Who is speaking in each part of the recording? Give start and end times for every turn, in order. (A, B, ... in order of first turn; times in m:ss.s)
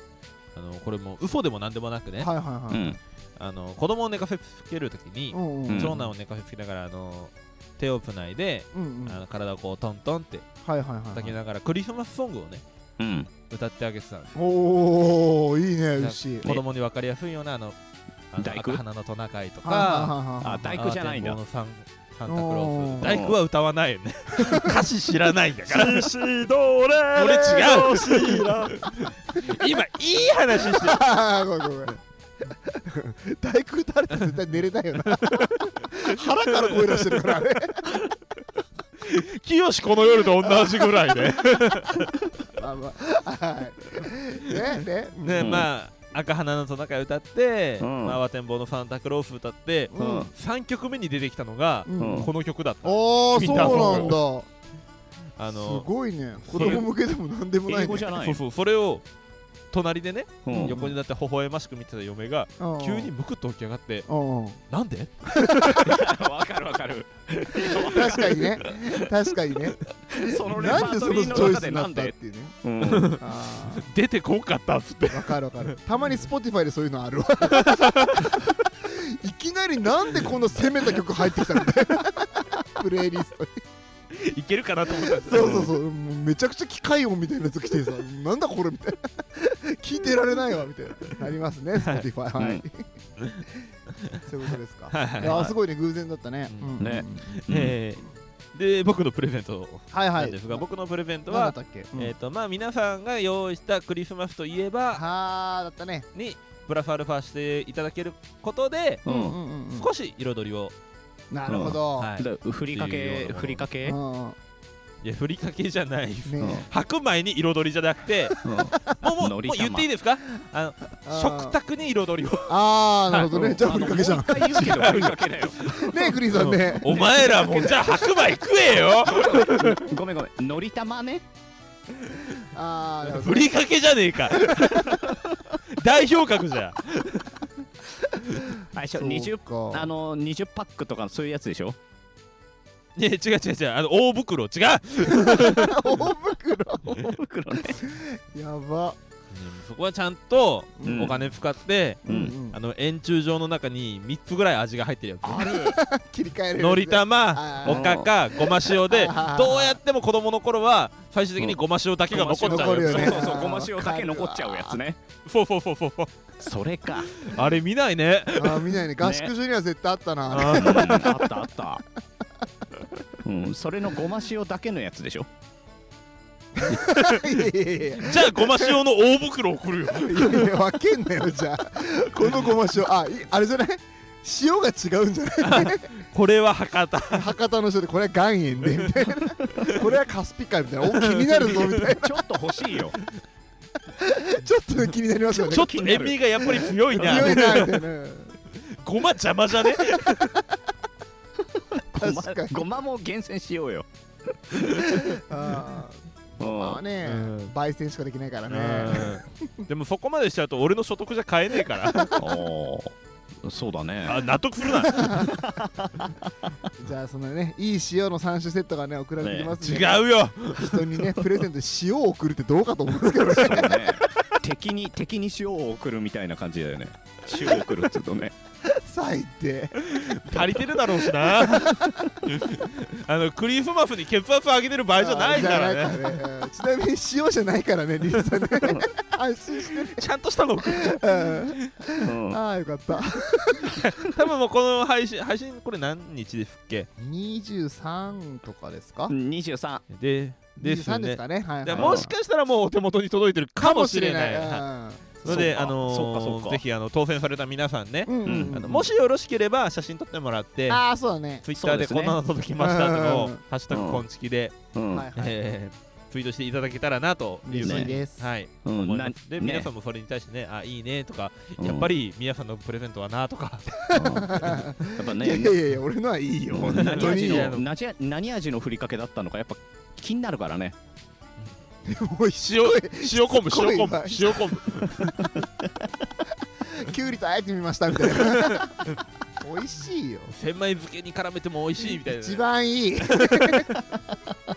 0:00.6-0:02.3 A
0:02.2-0:03.0 B
0:02.7-0:03.0 C
0:03.4-0:10.5 A
0:05.3-0:06.1 B
0:05.7-0:06.0 C
0:08.7-0:09.2 B
0:10.6-0:11.3 B
0:11.1-0:12.6 A
0:13.0-0:13.3 C
0:13.5-0:14.3 A
0:14.4-0:16.5 B
0:16.0-0:17.8 A
0:18.3-0:20.2 A
0:18.4-0:18.8 C
0:19.6-0:20.7 B
0:20.4-0:21.4 C
0:20.7-0:31.0 A
0:22.3-0:23.2 B
0:23.0-0:23.4 C
0:24.4-0:24.7 B
0:27.2-0:29.5 B
0:30.6-0:32.0 B
0:32.7-0:37.9 B
0:35.2-0:35.5 A
0:36.2-0:37.2 A
0:39.0-0:42.2 A
0:40.4-0:41.3 B
0:42.5-0:45.6 B
0:45.2-0:54.2 A
0:45.4-0:45.7 C
0:47.8-0:48.2 C
0:49.9-0:50.3 B
0:50.0-0:50.3 C
0:51.9-0:52.3 B
0:52.0-0:52.3 C
0:52.8-0:54.5 B
0:53.4-0:54.1 C
0:55.4-0:55.9 A
0:55.5-0:58.1 B
0:56.5-0:56.9 A
0:56.6-0:56.8 C
0:57.7-0:58.4 C
0:58.2-0:59.0 A
0:59.7-1:04.1 A
1:00.4-1:00.8 C
1:00.5-1:01.0 B
1:02.6-1:03.1 B
1:04.1-1:04.6 B
1:04.7-1:05.9 A
1:05.4-1:05.9 B
1:05.8-1:08.7 C
1:07.6-1:12.6 B
1:10.1-1:13.2 C
1:12.8-1:13.2 A
1:13.2-1:13.9 B
1:13.7-1:15.4 A
1:15.1-1:23.6 B
1:17.5-1:18.4 A
1:24.1-1:25.7 A
1:25.0-1:32.9 B
1:25.4-1:25.7 C
1:32.4-1:32.6 C
1:33.2-1:33.4 A
1:34.2-1:37.4 B
1:34.9-1:35.5 A
1:36.5-1:36.7 A
1:36.8-1:37.8 C
1:37.3-1:45.0 A
1:39.9-1:40.6 B
1:41.3-1:42.1 B
1:44.9-1:46.1 B
1:46.2-1:49.0 A
1:49.1-1:49.4 C
1:49.1-1:49.9 B
1:49.7-1:50.7 A
1:51.3-1:52.1 B
1:51.5-1:54.0 C
1:52.0-1:53.6 A
1:53.8-1:54.4 B
1:55.0-2:02.6 A
1:56.3-1:56.7 B
1:58.4-1:59.9 C
2:01.0-2:01.6 B
2:02.5-2:04.9 B
2:03.1-2:03.8 A
2:03.6-2:05.9 C
2:04.5-2:09.8 A
2:05.6-2:07.7 B
2:06.9-2:08.0 C
2:09.0-2:11.2 C
2:12.5-2:13.5 B
2:13.0-2:17.4 A
2:14.4-2:15.0 B
2:18.7-2:21.8 C
2:18.9-2:19.9 B
2:23.0-2:26.0 A
2:25.1-2:27.1 B
2:26.9-2:27.8 C
2:27.7-2:29.0 B
2:29.3-2:35.6 A
2:30.8-2:31.1 B
2:30.9-2:31.2 C
2:32.1-2:32.6 B
2:32.1-2:32.3 C
2:35.2-2:35.8 C
2:35.6-2:38.0 B
2:36.6-2:43.3 A
2:37.7-2:38.1 C
2:38.7-2:39.8 B
2:42.1-2:45.0 C
2:42.4-2:44.8 B
2:45.2-2:46.1 A
2:46.4-2:47.1 C
2:47.2-2:48.8 A
2:48.4-2:51.1 B
2:49.0-2:49.3 C
2:50.3-2:51.2 A
2:50.6-2:51.8 C
2:53.2-2:55.3 C
2:56.6-2:58.8 B
2:56.7-2:57.5 A
2:58.0-3:00.5 A
3:00.0-3:05.9 B
3:02.2-3:02.5 A
3:05.4-3:07.3 A
3:07.1-3:12.1 B
3:08.7-3:09.0 A
3:10.9-3:11.9 A
3:11.9-3:13.0 C
3:14.0-3:15.8 B
3:15.4-3:17.8 A
3:15.5-3:17.3 C
3:16.4-3:18.4 B
3:18.7-3:20.4 A
3:21.9-3:23.9 C
3:22.0-3:22.6 B
3:24.5-3:24.9 C
3:24.8-3:29.5 B
3:26.4-3:26.8 C
3:27.0-3:27.5 A
3:28.5-3:32.1 A
3:32.2-3:34.2 C
3:34.0-3:35.4 A
3:34.9-3:35.3 B
3:35.3-3:36.3 C
3:36.8-3:43.8 B
3:39.2-3:39.5 C
3:39.6-3:41.1 A
3:43.3-3:48.3 C
3:47.3-3:47.8 A
3:48.7-3:49.8 B
3:49.8-3:56.2 A
3:51.4-3:52.2 B
3:55.0-4:00.0 B
3:59.9-4:01.6 A
4:00.6-4:03.8 B
4:02.1-4:02.4 C
4:03.7-4:06.9 A
4:07.0-4:09.1 B
4:09.1-4:09.8 C
4:09.9-4:14.6 A
4:10.6-4:12.1 B
4:11.7-4:12.1 C
4:13.6-4:15.5 B
4:15.2-4:20.8 A
4:15.3-4:16.6 C
4:18.1-4:18.9 B
4:18.3-4:18.7 C
4:20.7-4:21.4 B
4:21.4-4:24.6 A
4:21.6-4:22.2 C
4:22.6-4:23.4 B
4:23.7-4:24.0 C
4:24.7-4:25.1 C
4:24.9-4:25.4 B
4:25.2-4:33.8 A
4:27.4-4:28.2 B
4:27.6-4:28.0 C
4:28.6-4:29.7 C
4:31.6-4:31.9 C
4:33.8-4:37.5 B
4:33.9-4:35.6 C
4:36.5-4:40.8 C
4:36.7-4:37.6 A
4:41.8-4:44.6 B
4:42.4-4:45.3 A
4:46.7-4:50.3 B
4:48.1-4:49.0 A
4:50.3-4:52.4 A
4:52.0-4:53.7 B
4:53.1-4:53.7 A